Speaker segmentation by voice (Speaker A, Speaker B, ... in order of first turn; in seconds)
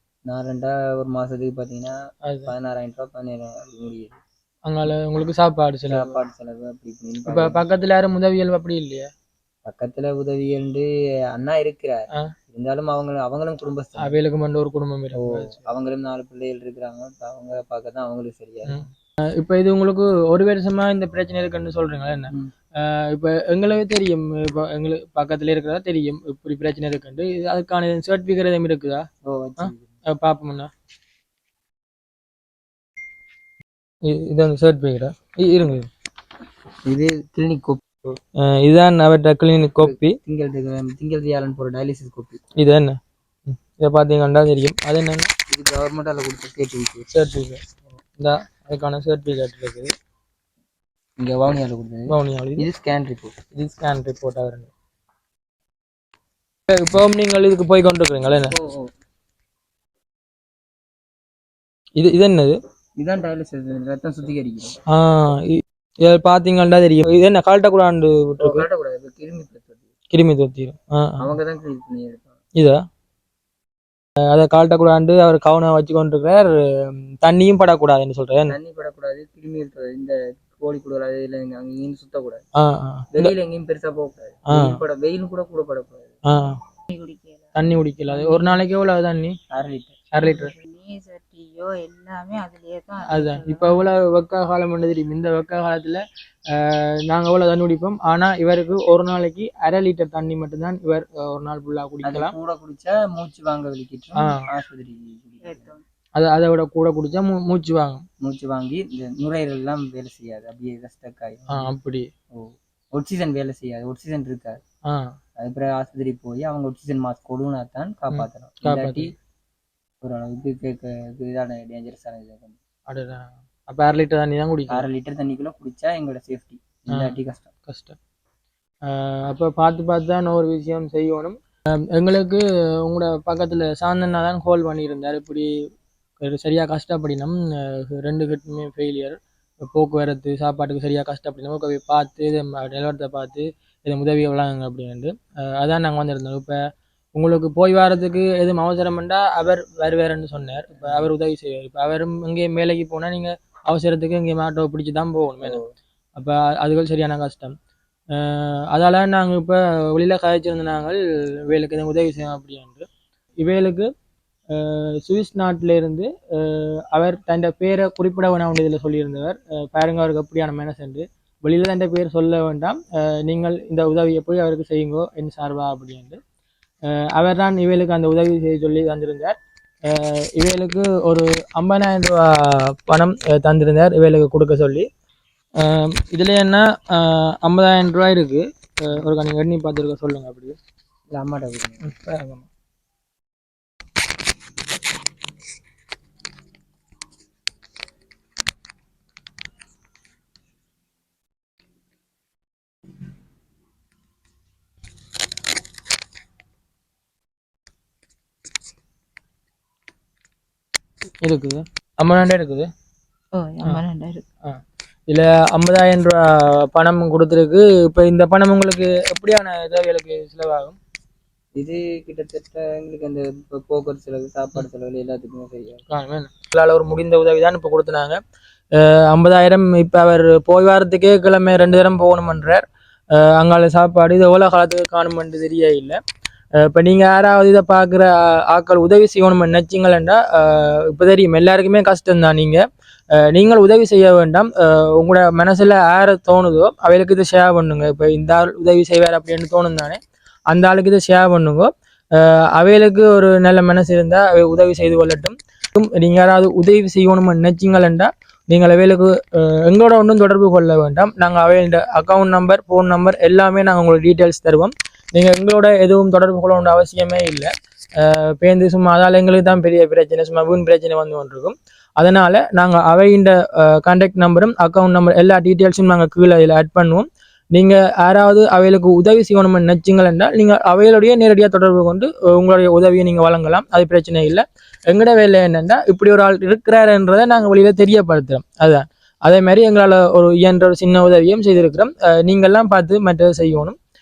Speaker A: 0.3-1.9, 2.5-4.2, 5.9-7.6, 9.6-14.2, 15.1-18.8, 29.2-29.9, 36.9-37.8, 39.8-42.4, 45.5-47.1, 51.2-53.3, 58.5-58.9, 63.0-64.8, 68.4-69.8, 71.2-72.3, 78.5-82.4, 83.1-86.1, 89.5-90.0, 102.0-105.7, 108.2-111.7, 112.3-114.6, 115.4-119.1, 120.0-122.5, 124.7-127.5, 150.7-151.1, 155.4-155.7, 191.1-191.8, 221.6-225.8
Speaker B: 2.2-2.5, 4.7-6.2, 7.2-9.1, 14.0-15.7, 18.6-29.1, 29.6-30.7, 34.0-35.9, 38.1-40.2, 42.6-45.3, 47.1-47.6, 48.2-49.9, 52.1-52.7, 53.5-54.7, 56.7-58.5, 62.0-62.5, 64.9-68.7, 70.1-71.3, 72.5-72.8, 74.3-78.5, 82.5-83.3, 84.5-84.8, 86.3-86.6, 87.5-89.3, 90.1-90.5, 93.1-102.3, 104.2-104.5, 106.2-108.0, 111.5-112.1, 118.1-119.1, 122.9-124.8, 126.9-128.0, 128.8-135.6, 136.2-146.6, 147.2-155.6, 156.2-157.5, 158.1-162.9, 163.4-163.9, 164.5-176.2, 176.9-179.3, 179.8-184.8, 185.6-190.6, 191.8-192.5, 211.2-212.7, 215.1-220.8, 225.9-228.2, 228.7-236.0, 236.6-293.8
Speaker C: 86.9-88.6, 90.2-93.8, 105.4-105.8, 213.3-214.2